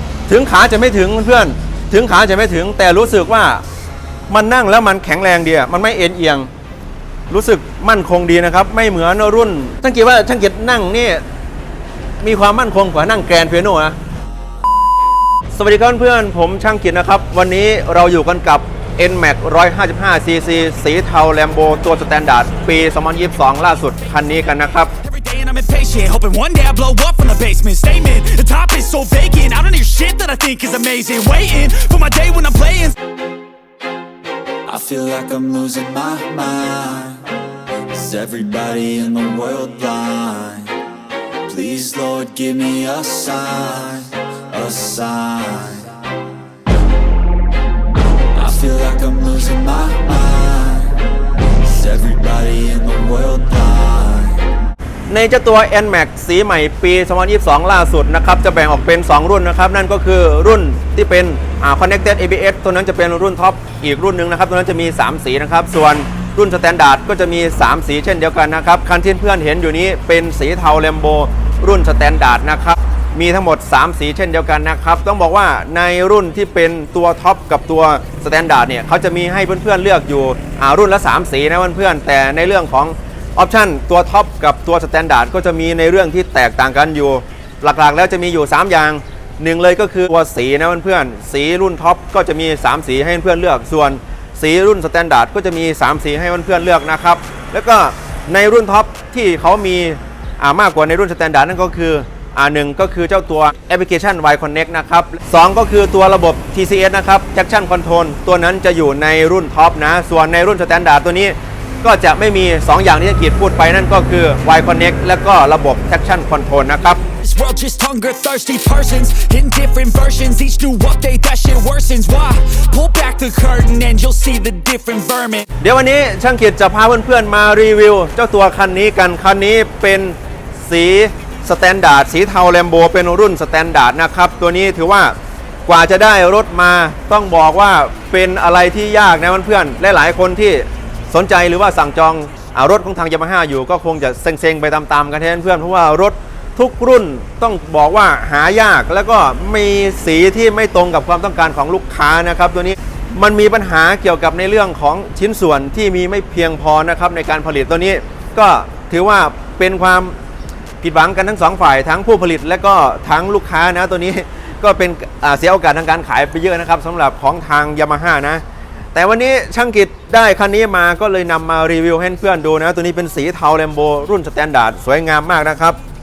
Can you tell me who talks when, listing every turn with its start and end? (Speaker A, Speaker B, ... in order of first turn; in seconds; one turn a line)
Speaker A: 0.3-3.6
Speaker A: 4.3-6.5
Speaker A: 7.3-11.2
Speaker A: 12.2-14.0
Speaker A: 15.5-24.9
Speaker B: 25.1-32.9
Speaker C: 25.2-32.8
Speaker C: 34.7-37.2
Speaker C: 37.9-40.8
Speaker C: 41.5-45.9
Speaker C: 48.4-54.4
Speaker A: 55.1-117.0
Speaker C: 117.2-125.4
Speaker B: 117.5-119.7
Speaker B: 120.5-124.3
Speaker B: 125.1-125.4
Speaker A: 125.6-135.1
Speaker A: 135.7-160.2
Speaker A: 160.8-168.4
Speaker A: 168.9-175.8